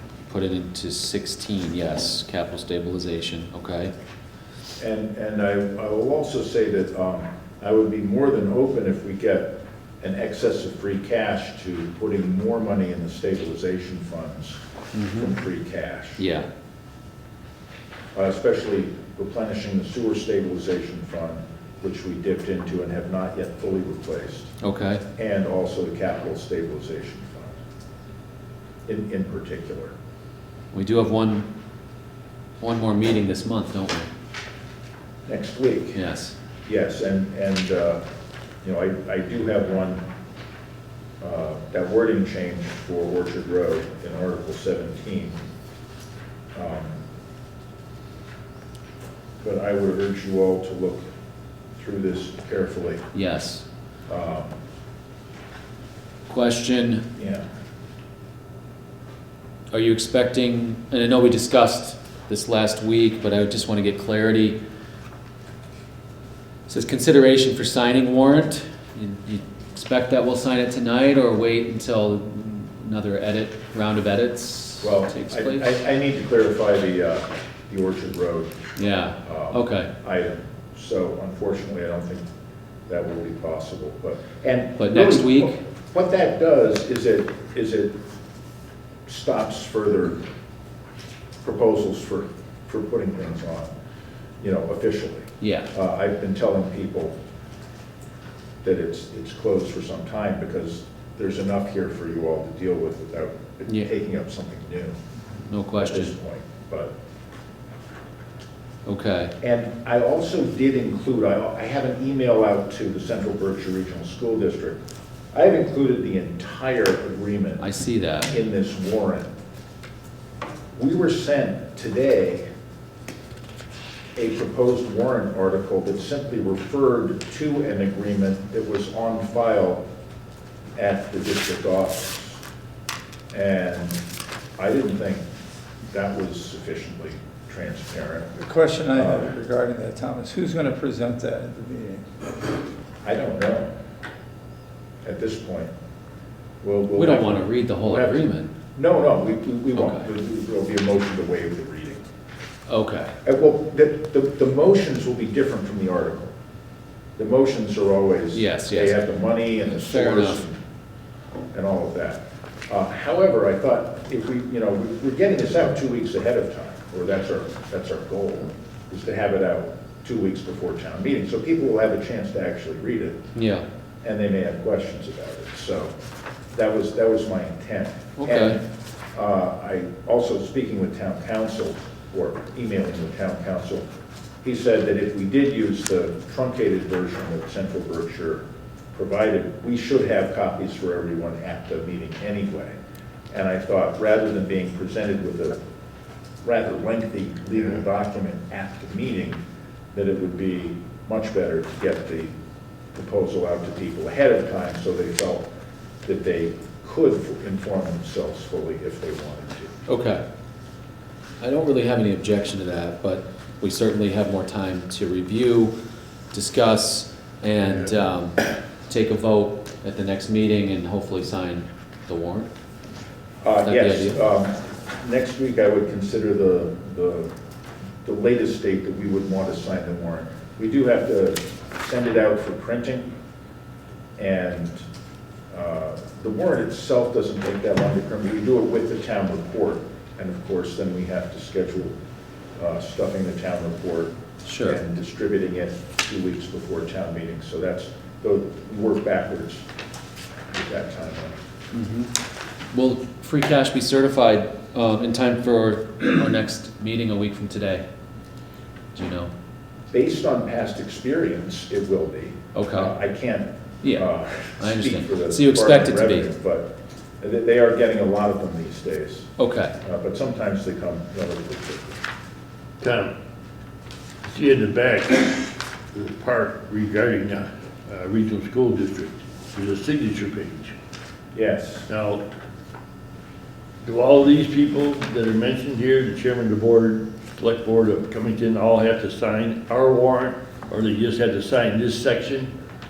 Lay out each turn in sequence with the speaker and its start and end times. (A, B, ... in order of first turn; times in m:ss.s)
0:00.3-0:03.9 A
0:04.8-0:14.6 B
0:14.9-0:15.3 A
0:15.1-0:16.2 B
0:16.2-0:16.5 A
0:18.1-0:24.5 B
0:24.6-0:25.0 A
0:25.2-0:27.6 B
0:28.9-0:29.9 B
0:30.7-0:31.5 A
0:32.6-0:34.1 A
0:35.3-0:36.0 B
0:35.9-0:36.3 A
0:36.6-0:38.0 B
0:38.6-0:40.0 B
0:41.2-0:45.4 B
0:46.5-0:47.0 B
0:49.4-0:51.1 B
0:51.8-0:53.0 B
0:53.1-0:53.6 A
0:54.1-0:54.5 B
0:56.3-0:57.0 A
0:57.2-0:57.4 B
0:59.7-1:04.6 A
1:06.7-1:15.7 A
1:14.8-1:22.2 B
1:18.8-1:19.9 A
1:22.9-1:27.9 B
1:24.8-1:25.6 A
1:29.0-1:30.2 B
1:31.4-1:33.7 B
1:34.4-1:37.1 B
1:35.4-1:35.7 A
1:38.6-1:44.9 B
1:45.5-1:46.1 A
1:45.7-1:46.9 B
1:48.8-1:49.3 A
1:49.4-1:54.8 B
1:55.3-1:57.6 B
1:57.6-1:58.3 A
1:58.2-1:59.3 B
2:00.8-2:02.4 B
2:04.2-2:09.8 B
2:10.8-2:12.4 B
2:13.3-2:14.0 B
2:14.6-2:15.2 B
2:15.9-2:18.3 B
2:18.4-2:22.1 C
2:18.9-2:19.3 B
2:23.0-2:23.7 B
2:25.0-2:25.7 B
2:26.6-2:32.0 B
2:27.0-2:28.5 A
2:29.8-2:30.0 A
2:32.7-2:33.1 A
2:33.2-2:36.3 B
2:37.2-2:40.6 B
2:38.3-2:39.0 A
2:39.6-2:40.4 A
2:41.5-2:53.2 B
2:53.3-2:53.6 A
2:54.0-2:55.9 B
2:56.5-2:58.6 B
2:58.2-2:58.6 A
2:59.1-3:03.8 B
3:04.4-3:08.4 B
3:08.9-3:12.8 B
3:13.3-3:15.6 B
3:16.4-3:19.4 B
3:19.9-3:22.3 B
3:22.9-3:25.4 B
3:26.0-3:29.8 B
3:29.9-3:30.2 A
3:31.4-3:35.7 A
3:36.3-3:42.5 A
3:43.4-3:47.3 B
3:43.6-3:44.2 A
3:48.0-3:53.1 B
3:54.2-3:54.8 B
3:55.5-4:01.9 B
4:02.6-4:04.1 B
4:04.4-4:04.8 A
4:04.6-4:09.6 B
4:10.5-4:11.4 B
4:11.7-4:12.1 A
4:12.7-4:17.8 A
4:18.9-4:19.3 A
4:19.9-4:29.3 B
4:22.5-4:23.0 A
4:23.8-4:26.3 A
4:29.4-4:29.7 A
4:29.8-4:32.0 B
4:32.8-4:33.1 D
4:34.2-4:40.7 D
4:41.3-4:41.9 B
4:41.9-4:42.2 D
4:43.8-4:52.5 D